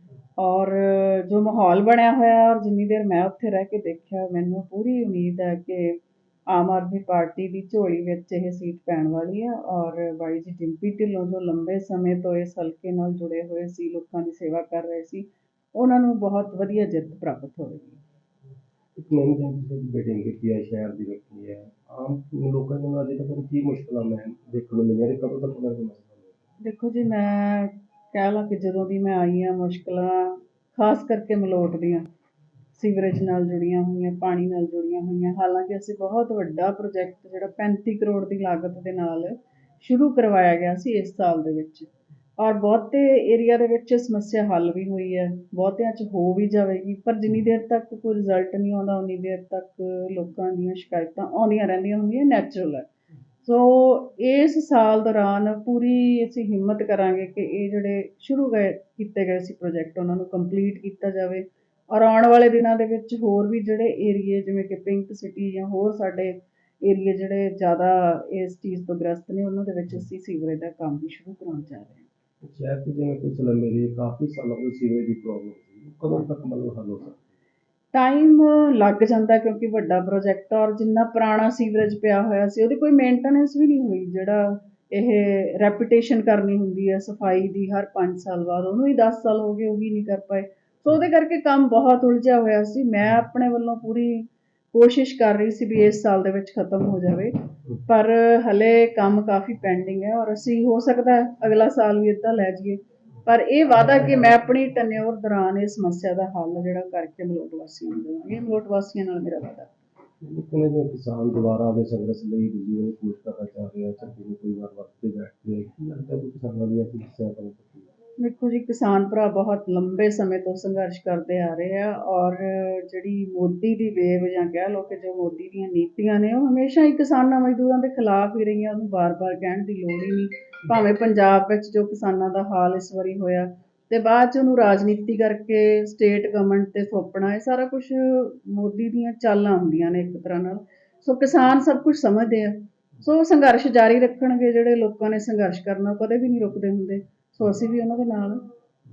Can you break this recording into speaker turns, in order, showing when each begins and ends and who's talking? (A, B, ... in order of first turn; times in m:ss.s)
0:00.4-0:06.0 A
0:06.5-0:18.0 A
0:19.0-0:26.4 B
0:26.6-0:32.1 A
0:32.7-0:52.9 A
0:53.4-1:12.1 A
1:12.4-1:17.2 B
1:17.9-1:49.7 A
1:50.2-1:57.9 B
1:58.2-2:28.4 A